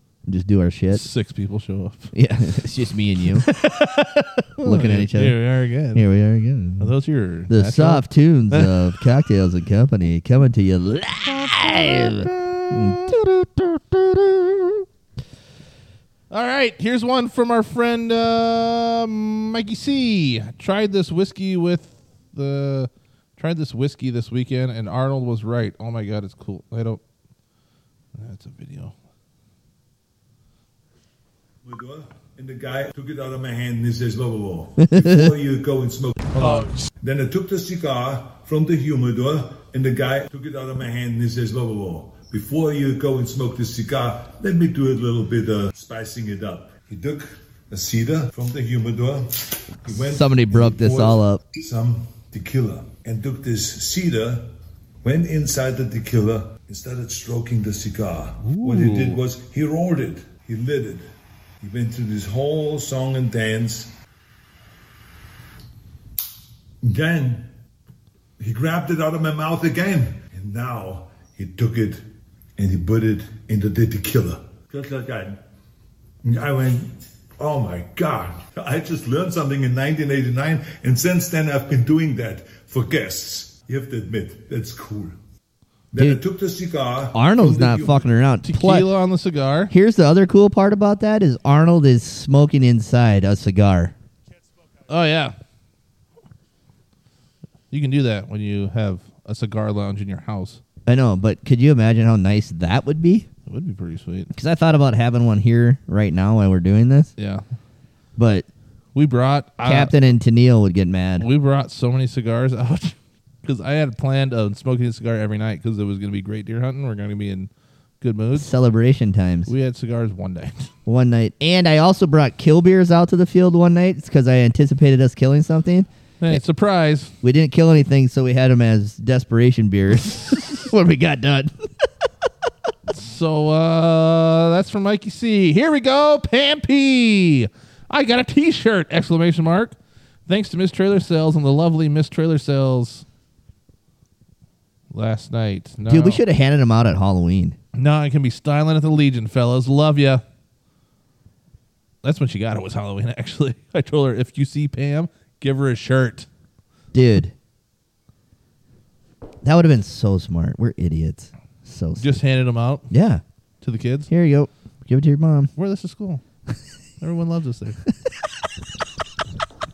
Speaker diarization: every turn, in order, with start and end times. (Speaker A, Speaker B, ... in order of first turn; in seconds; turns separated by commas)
Speaker A: 0.3-1.0, Speaker B: 0.9-2.1, Speaker A: 2.1-3.5, Speaker B: 3.4-6.0, Speaker A: 4.6-5.4, Speaker A: 5.9-6.9, Speaker B: 6.8-8.8, Speaker A: 7.5-14.8, Speaker B: 11.2-13.1, Speaker B: 16.3-27.0, Speaker B: 28.1-28.9, Speaker C: 31.6-54.5, Speaker A: 34.8-35.3, Speaker B: 36.3-36.8, Speaker A: 49.9-51.4, Speaker C: 55.0-61.1, Speaker B: 58.4-59.2, Speaker C: 61.6-63.9, Speaker C: 66.8-67.5, Speaker C: 68.4-72.0, Speaker C: 72.6-75.4, Speaker C: 76.2-85.2, Speaker C: 85.9-88.1, Speaker A: 86.0-86.2, Speaker A: 87.1-88.9, Speaker B: 88.4-89.7, Speaker A: 89.7-93.9, Speaker B: 94.9-95.3, Speaker B: 97.7-100.6, Speaker A: 100.8-103.3, Speaker B: 103.5-104.3, Speaker A: 104.3-107.1, Speaker B: 107.2-107.4, Speaker A: 108.2-108.5, Speaker B: 108.9-110.0, Speaker A: 109.6-111.3, Speaker B: 111.2-117.5, Speaker B: 118.0-118.5, Speaker A: 118.3-119.5, Speaker B: 119.5-120.7, Speaker A: 120.8-126.4, Speaker B: 126.2-127.1, Speaker A: 127.2-131.5, Speaker B: 132.9-139.8, Speaker B: 140.3-143.0, Speaker B: 144.9-146.2, Speaker A: 145.9-147.6, Speaker B: 147.7-150.2, Speaker B: 152.0-156.3, Speaker A: 156.9-157.3, Speaker A: 159.4-162.2, Speaker B: 162.0-162.9, Speaker A: 162.9-163.2, Speaker B: 163.6-164.1, Speaker A: 164.1-165.5, Speaker B: 165.6-166.2, Speaker B: 167.0-167.8